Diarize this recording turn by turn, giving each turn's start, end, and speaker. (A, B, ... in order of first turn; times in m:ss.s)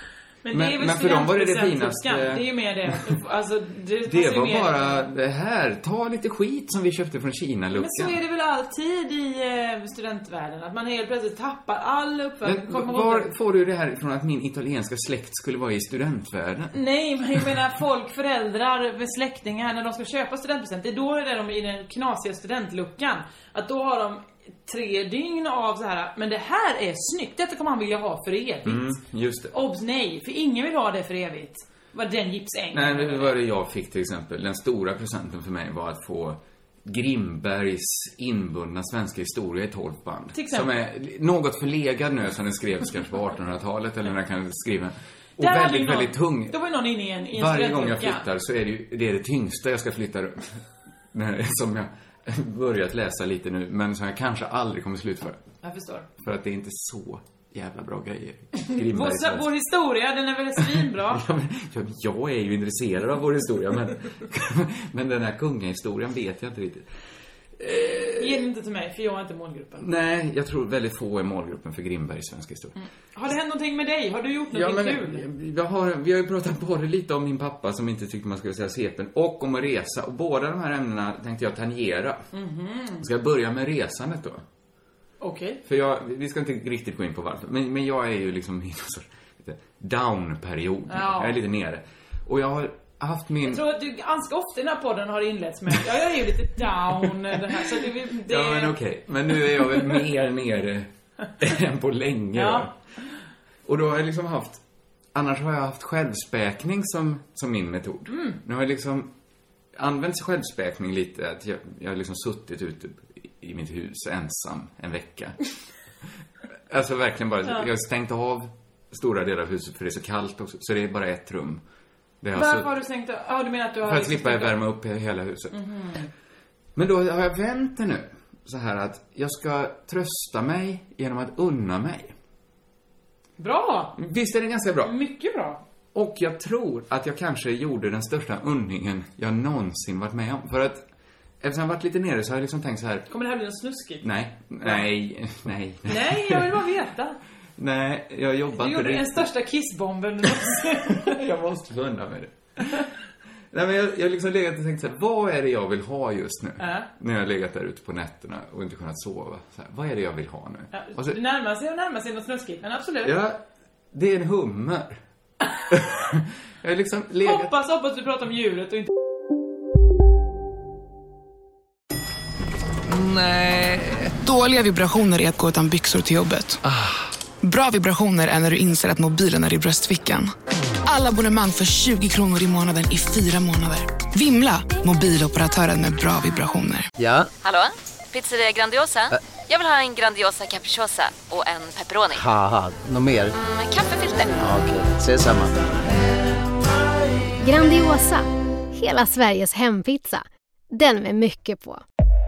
0:00.4-0:05.1 A
0:00.5-0:03.1 B
0:04.1-0:08.2 B
0:07.7-0:13.3 A
0:12.4-0:16.7 B
0:16.7-0:28.9 A
0:28.6-0:29.5 B
0:29.5-0:33.3 A
0:32.7-0:46.6 B
0:40.3-0:40.8 A
0:45.4-0:48.2 A
0:47.3-0:55.4 B
0:55.6-0:56.1 A
0:56.2-0:59.5 B
0:58.6-1:01.2 A
1:00.6-1:06.9 B
1:07.6-1:08.4 B
1:08.1-1:09.8 A
1:09.8-1:12.7 B
1:12.8-1:15.2 A
1:14.5-1:22.3 B
1:22.3-1:23.0 A
1:23.0-1:24.4 B
1:25.2-1:25.6 A
1:25.6-1:33.6 B
1:30.9-1:31.4 A
1:33.4-1:38.8 A
1:37.0-1:37.6 B
1:38.2-1:42.7 B
1:42.3-1:42.7 A
1:43.6-1:44.6 B
1:45.1-1:49.1 B
1:48.1-1:48.4 A
1:49.7-1:55.4 B
1:56.7-2:01.6 B
2:02.2-2:02.7 B
2:02.3-2:04.6 A
2:03.8-2:05.6 B
2:05.5-2:06.1 A
2:06.8-2:12.1 B
2:13.4-2:14.0 A
2:14.0-2:14.9 B
2:14.8-2:15.6 A
2:15.9-2:20.8 B
2:21.4-2:23.1 B
2:23.1-2:24.1 A
2:24.0-2:26.5 B
2:25.8-2:27.2 A
2:27.6-2:29.3 B
2:28.6-2:31.2 A
2:30.5-2:32.9 B
2:33.5-2:41.2 B
2:36.6-2:36.9 A
2:40.7-2:43.2 A
2:43.0-2:43.4 B
2:43.9-2:45.0 B
2:45.7-2:47.5 B
2:47.2-2:48.9 A
2:52.9-2:56.6 C
2:53.0-2:53.8 B
2:57.4-3:00.3 C
3:00.8-3:06.9 C
3:07.0-3:07.3 D
3:07.4-3:12.2 E
3:12.1-3:13.3 D
3:13.4-3:14.4 E
3:14.4-3:15.7 D
3:17.4-3:21.8 F